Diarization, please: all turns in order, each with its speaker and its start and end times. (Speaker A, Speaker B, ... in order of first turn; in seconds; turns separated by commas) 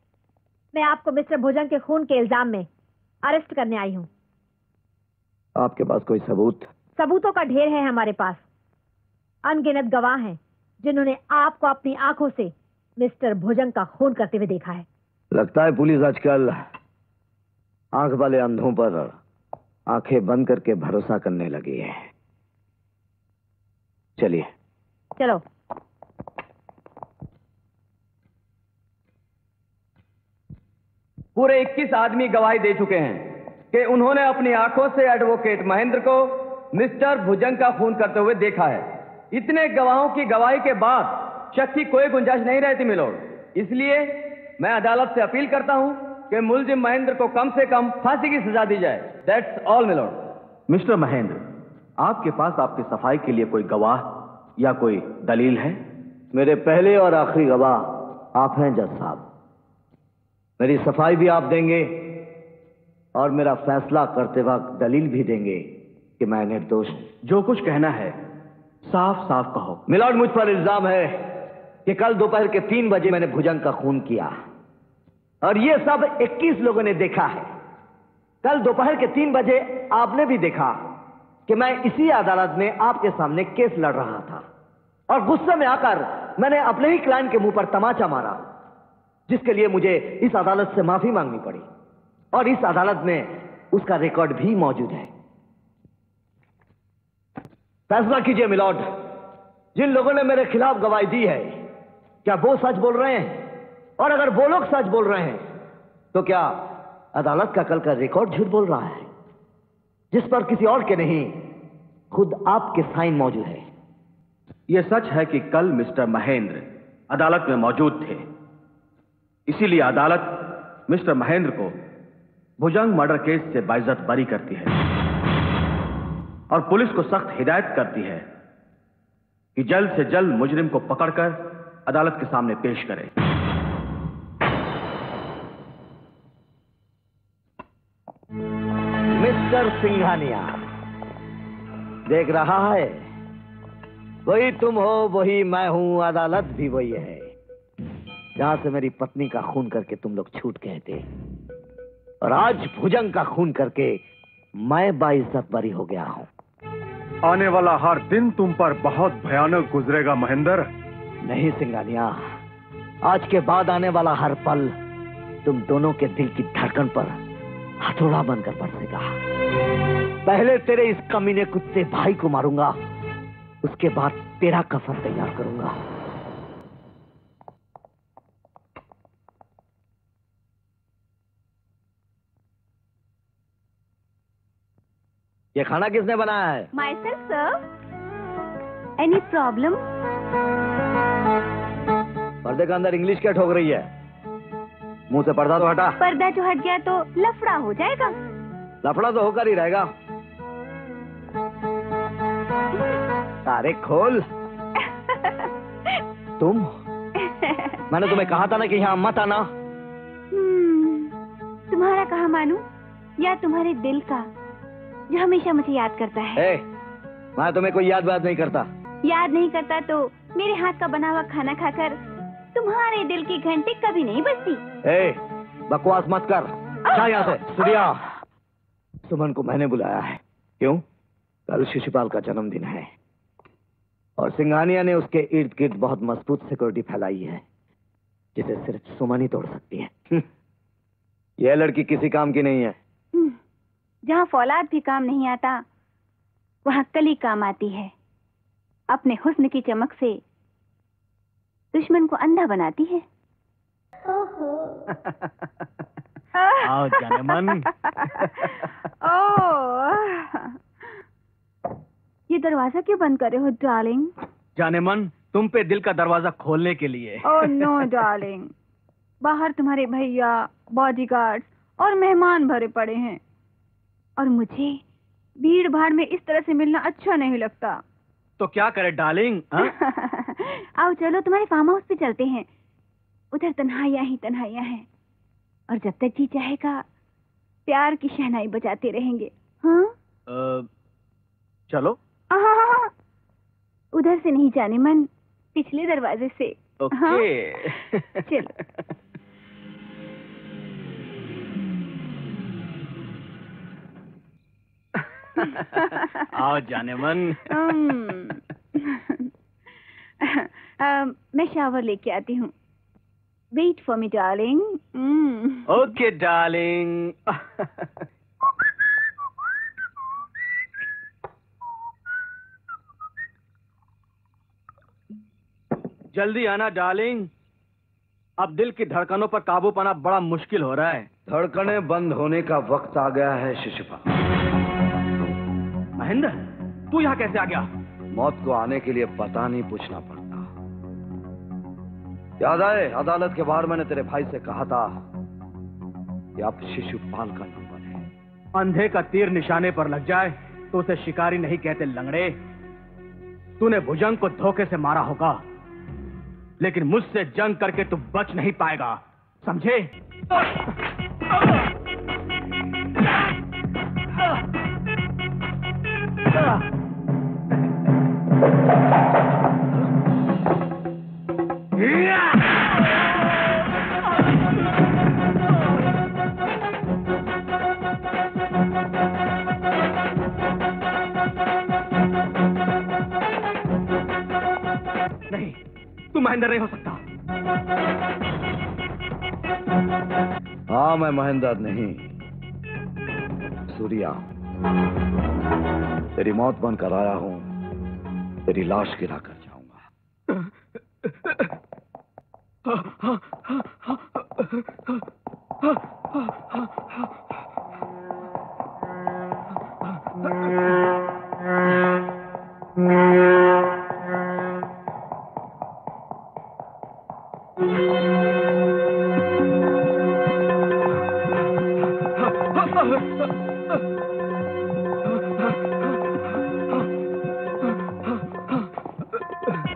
Speaker A: 0.7-2.7, Speaker A: 3.2-4.1, Speaker B: 5.6-6.7, Speaker A: 7.0-8.4, Speaker A: 9.4-14.8, Speaker B: 15.3-16.5, Speaker B: 17.9-19.1, Speaker B: 19.9-22.0, Speaker B: 24.2-24.4, Speaker A: 25.2-25.4, Speaker C: 31.4-50.2, Speaker D: 50.7-51.4, Speaker D: 52.0-54.1, Speaker D: 54.6-55.8, Speaker B: 56.3-57.8, Speaker B: 58.4-59.2, Speaker B: 60.6-62.0, Speaker B: 63.2-65.7, Speaker B: 66.2-67.1, Speaker D: 67.2-68.1, Speaker D: 68.8-69.8, Speaker B: 69.9-71.1, Speaker B: 71.8-74.3, Speaker B: 75.4-77.5, Speaker B: 78.4-80.7, Speaker B: 81.5-84.4, Speaker B: 85.1-88.4, Speaker B: 89.3-91.7, Speaker B: 92.3-95.1, Speaker B: 97.9-98.8, Speaker B: 99.7-101.6, Speaker B: 102.2-103.4, Speaker B: 104.0-105.4, Speaker B: 106.1-106.5, Speaker B: 107.2-109.1, Speaker B: 110.1-111.4, Speaker B: 112.1-113.6, Speaker D: 114.7-118.2, Speaker D: 119.5-121.7, Speaker D: 122.6-124.7, Speaker D: 126.5-128.2, Speaker D: 129.6-133.1, Speaker B: 139.1-140.6, Speaker B: 142.1-143.0, Speaker B: 144.2-147.3, Speaker B: 148.4-151.1, Speaker B: 152.2-154.0, Speaker B: 154.6-156.3, Speaker E: 157.2-160.6, Speaker B: 161.2-162.1, Speaker B: 163.0-164.7, Speaker B: 165.4-167.1, Speaker B: 167.8-169.1, Speaker B: 170.2-172.7, Speaker B: 173.6-175.8, Speaker B: 185.6-186.7, Speaker F: 186.7-187.5, Speaker F: 189.0-189.8, Speaker B: 192.4-193.8, Speaker B: 195.1-195.9, Speaker F: 196.0-198.1, Speaker B: 198.8-199.9, Speaker B: 203.4-204.2, Speaker F: 204.8-205.5, Speaker B: 206.4-206.7, Speaker F: 207.2-207.8, Speaker B: 207.9-209.4, Speaker F: 210.3-211.1, Speaker F: 211.7-212.6, Speaker F: 213.2-214.3, Speaker F: 215.1-216.4, Speaker B: 216.4-216.6, Speaker B: 217.4-218.7, Speaker F: 219.0-222.0, Speaker F: 222.5-224.6, Speaker B: 224.8-228.1, Speaker B: 229.0-230.8, Speaker B: 231.5-232.9, Speaker B: 234.2-237.4, Speaker B: 238.3-240.2, Speaker B: 241.4-242.8, Speaker F: 244.1-245.6, Speaker F: 246.7-247.9, Speaker F: 248.9-250.2, Speaker F: 251.7-253.0, Speaker F: 256.4-260.6, Speaker D: 256.6-258.7, Speaker F: 262.3-264.1, Speaker D: 264.6-267.7, Speaker F: 267.2-268.5, Speaker F: 269.2-273.2, Speaker F: 274.2-274.8, Speaker F: 275.4-277.8, Speaker D: 278.4-279.7, Speaker F: 279.6-282.5, Speaker F: 283.3-284.9, Speaker F: 285.7-286.8, Speaker F: 287.7-289.9, Speaker D: 290.3-290.7, Speaker D: 291.7-292.0, Speaker F: 292.3-292.9, Speaker F: 294.0-297.7, Speaker D: 296.8-298.4, Speaker D: 305.4-307.9, Speaker F: 307.5-309.3, Speaker F: 310.2-312.5, Speaker F: 313.5-315.7, Speaker D: 315.7-317.9, Speaker D: 326.1-327.3, Speaker D: 328.4-331.1, Speaker B: 331.3-334.1, Speaker D: 336.0-336.4, Speaker D: 336.9-337.7, Speaker B: 338.1-340.4, Speaker B: 342.4-344.9, Speaker B: 346.4-348.1, Speaker D: 348.5-352.4, Speaker D: 353.6-355.4, Speaker D: 356.6-359.9, Speaker D: 385.3-385.6, Speaker D: 386.1-387.0, Speaker B: 390.7-392.1, Speaker B: 393.7-394.2, Speaker B: 396.1-397.5, Speaker B: 398.5-399.8